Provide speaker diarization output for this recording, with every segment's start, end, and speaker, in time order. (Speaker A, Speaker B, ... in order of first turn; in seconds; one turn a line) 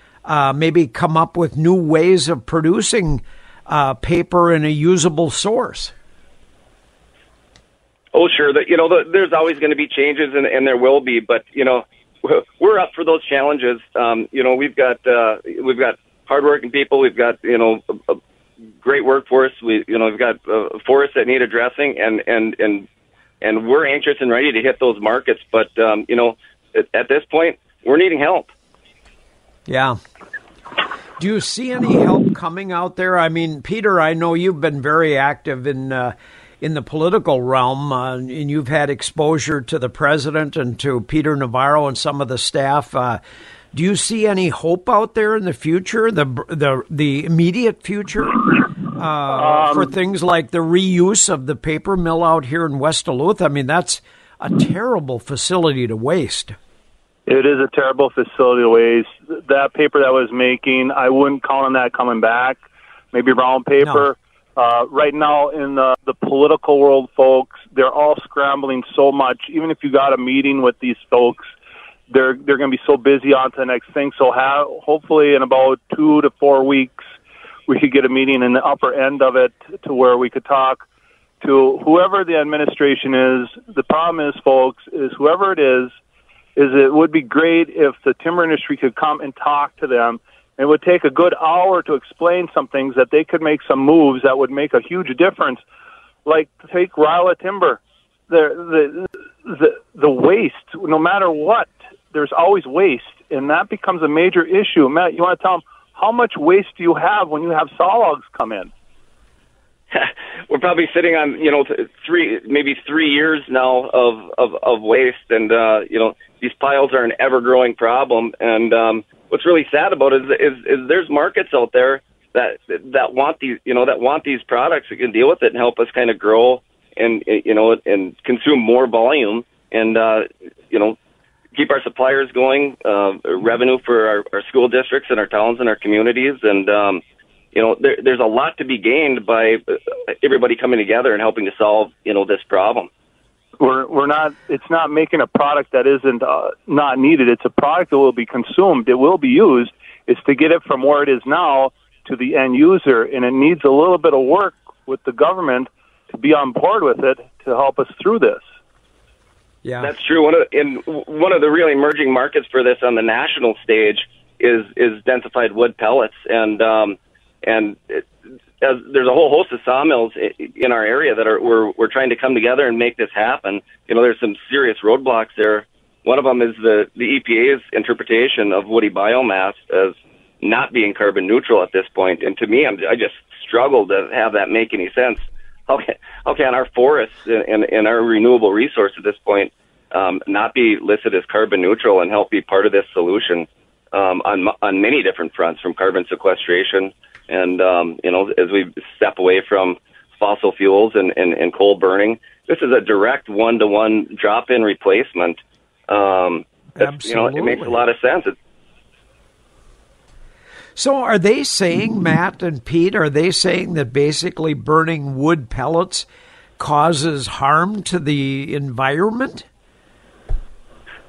Speaker A: 0.3-5.9
Speaker B: 8.1-18.2
Speaker B: 18.8-22.9
Speaker B: 23.4-28.5
Speaker A: 29.7-30.0
Speaker A: 31.2-43.2
Speaker A: 43.7-56.6
Speaker C: 49.3-49.9
Speaker C: 57.3-62.6
Speaker C: 63.1-71.5
Speaker A: 63.8-64.1
Speaker C: 72.1-77.0
Speaker C: 77.7-80.8
Speaker C: 81.4-85.9
Speaker C: 86.6-95.6
Speaker C: 96.3-108.7
Speaker B: 109.9-131.0
Speaker B: 131.5-137.0
Speaker B: 137.5-142.9
Speaker C: 143.6-158.4
Speaker A: 159.6-159.9
Speaker B: 159.8-168.1
Speaker B: 168.6-208.4
Speaker A: 206.8-207.8
Speaker A: 210.8-216.1
Speaker A: 216.6-219.5